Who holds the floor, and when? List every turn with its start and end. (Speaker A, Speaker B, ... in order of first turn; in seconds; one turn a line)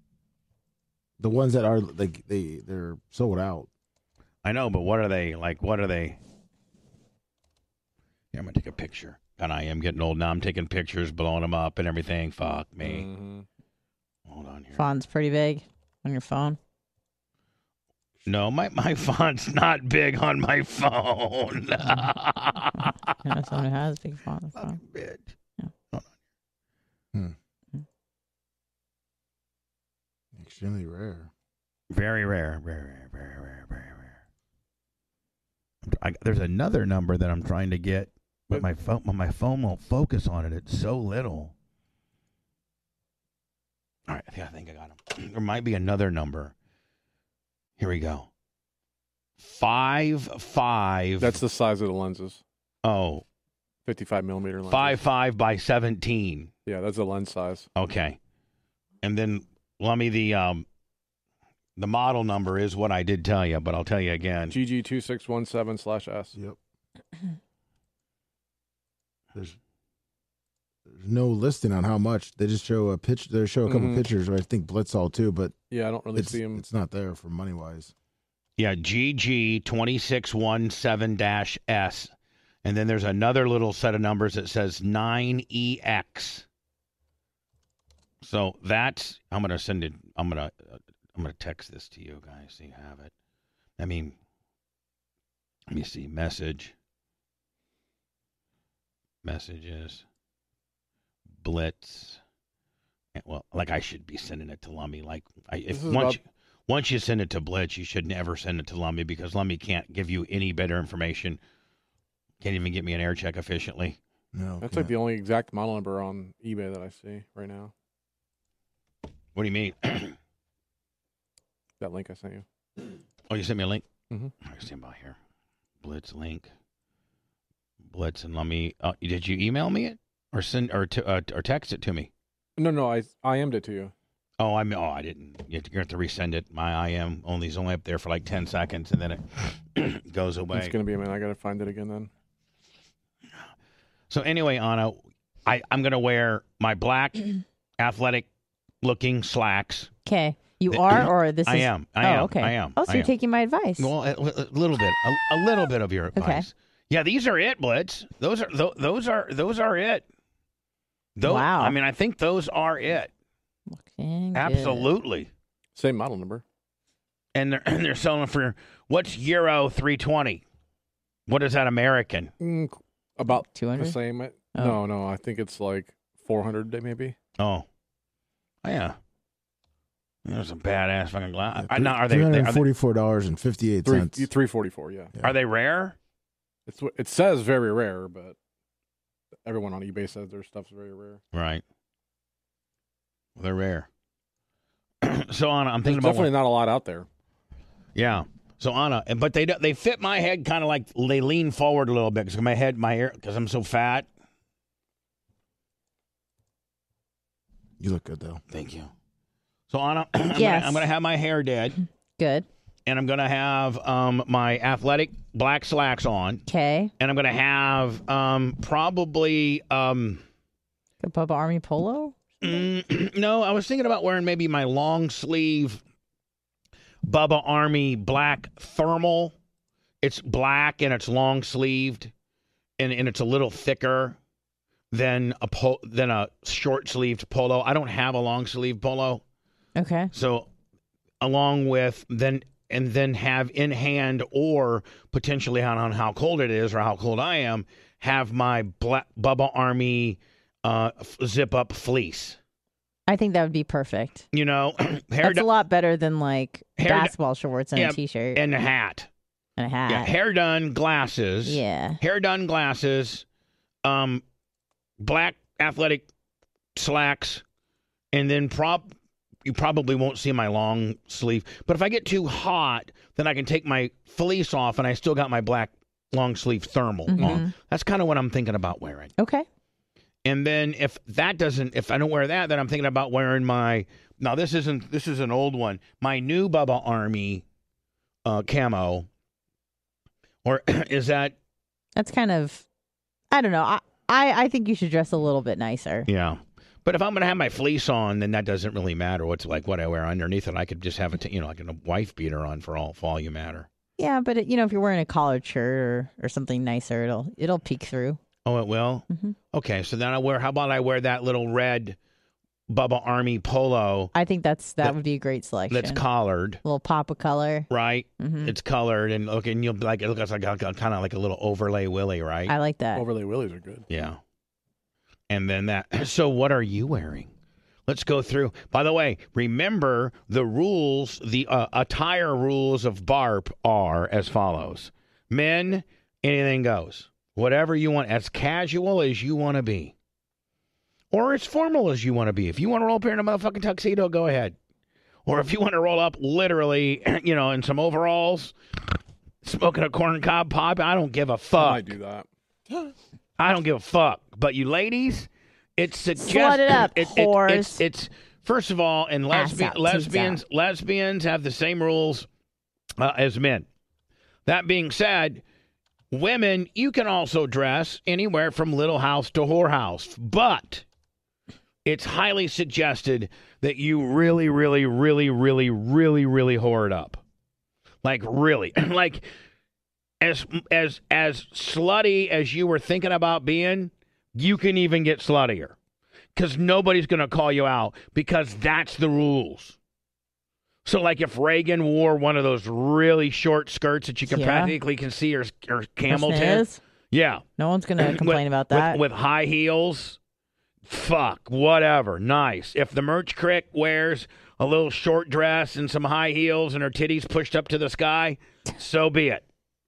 Speaker A: 1.2-3.7
Speaker B: 4.4-6.2
Speaker B: 8.3-13.1
Speaker C: 12.8-13.4
Speaker B: 14.3-14.8
Speaker D: 14.7-16.6
Speaker B: 18.2-23.0
Speaker D: 23.2-24.8
Speaker B: 24.6-25.3
Speaker A: 30.3-31.3
Speaker B: 31.9-34.1
Speaker B: 35.8-41.5
Speaker B: 44.1-46.5
Speaker B: 47.8-48.3
Speaker B: 49.4-51.4
Speaker C: 51.2-52.4
Speaker B: 52.8-53.2
Speaker C: 53.9-55.0
Speaker B: 54.7-56.5
Speaker C: 56.6-57.7
Speaker B: 57.8-58.2
Speaker B: 59.0-60.6
Speaker B: 61.8-64.6
Speaker C: 64.5-66.3
Speaker A: 70.9-75.5
Speaker C: 73.7-74.0
Speaker C: 75.7-76.6
Speaker A: 76.2-77.9
Speaker B: 78.6-82.1
Speaker B: 82.6-86.4
Speaker B: 88.2-93.1
Speaker B: 93.8-94.1
Speaker B: 95.7-96.7
Speaker B: 99.2-100.0
Speaker B: 101.4-102.2
Speaker B: 103.1-111.4
Speaker C: 105.7-106.2
Speaker B: 112.4-114.0
Speaker A: 114.3-114.9
Speaker C: 114.6-117.7
Speaker B: 119.3-120.2
Speaker C: 121.8-122.4
Speaker B: 123.3-123.8
Speaker B: 124.4-125.2
Speaker B: 125.8-126.5
Speaker B: 127.9-132.1
Speaker C: 132.6-133.9
Speaker B: 134.4-140.7
Speaker C: 140.5-142.1
Speaker B: 144.1-148.3
Speaker B: 148.8-149.9
Speaker D: 150.0-153.9
Speaker B: 150.7-153.1
Speaker B: 153.8-160.0
Speaker D: 156.2-156.5
Speaker B: 161.2-163.1
Speaker D: 161.2-161.8
Speaker D: 163.7-164.9
Speaker B: 164.3-165.3
Speaker C: 165.8-166.4
Speaker B: 167.3-170.4
Speaker B: 171.3-172.3
Speaker C: 172.4-177.2
Speaker D: 173.5-174.0
Speaker D: 174.5-174.8
Speaker B: 177.4-177.7
Speaker B: 178.6-179.0
Speaker B: 180.2-182.6
Speaker A: 181.6-184.3
Speaker C: 183.8-185.1
Speaker B: 185.2-185.9
Speaker C: 186.7-188.3
Speaker C: 189.4-191.2
Speaker B: 191.3-191.6
Speaker B: 193.4-193.9
Speaker B: 195.0-196.3
Speaker C: 195.8-197.1
Speaker B: 197.9-204.1
Speaker A: 207.8-208.4
Speaker B: 208.5-208.9
Speaker B: 209.7-211.8
Speaker D: 210.3-210.9
Speaker D: 212.2-212.4
Speaker B: 212.8-216.4
Speaker D: 216.5-216.9
Speaker B: 217.0-220.2
Speaker D: 221.0-222.6
Speaker B: 222.4-225.8
Speaker B: 227.0-229.3
Speaker B: 230.0-232.1
Speaker B: 232.8-234.2
Speaker B: 234.9-239.2
Speaker D: 239.8-240.1
Speaker B: 240.1-240.5
Speaker B: 241.2-252.4
Speaker D: 253.1-254.2
Speaker B: 254.3-255.5
Speaker D: 255.2-258.4
Speaker B: 256.8-257.1
Speaker B: 257.7-259.1
Speaker D: 259.6-260.1
Speaker B: 259.9-263.2
Speaker D: 261.4-262.0
Speaker B: 263.8-264.2
Speaker B: 265.0-266.1
Speaker B: 266.7-267.4
Speaker B: 268.1-268.9
Speaker B: 269.4-279.1
Speaker D: 277.1-277.5
Speaker D: 279.2-279.4
Speaker B: 280.2-287.4
Speaker B: 288.2-289.1
Speaker B: 290.4-291.3
Speaker D: 291.9-292.6
Speaker D: 293.3-296.1
Speaker B: 296.1-303.7
Speaker D: 304.0-308.2
Speaker B: 308.4-312.0
Speaker B: 312.7-314.1
Speaker D: 314.1-316.0
Speaker B: 315.7-316.6
Speaker D: 316.6-317.7
Speaker B: 317.7-322.5
Speaker D: 318.2-318.5
Speaker D: 322.5-323.0
Speaker C: 322.9-323.8
Speaker B: 323.9-324.2
Speaker B: 325.3-327.3
Speaker B: 327.9-339.9
Speaker B: 341.1-344.5
Speaker B: 345.2-348.5
Speaker B: 349.4-351.9
Speaker C: 351.6-352.3
Speaker B: 353.4-362.3
Speaker D: 356.2-357.8
Speaker D: 359.3-360.4
Speaker B: 363.0-363.6
Speaker B: 364.4-365.4
Speaker B: 366.1-370.8
Speaker B: 371.8-377.2
Speaker B: 378.0-379.2
Speaker B: 380.2-385.7
Speaker B: 386.3-389.8
Speaker B: 390.8-397.4
Speaker D: 394.3-394.7
Speaker D: 396.1-396.8
Speaker D: 397.6-399.0
Speaker B: 398.0-400.2
Speaker B: 400.9-409.4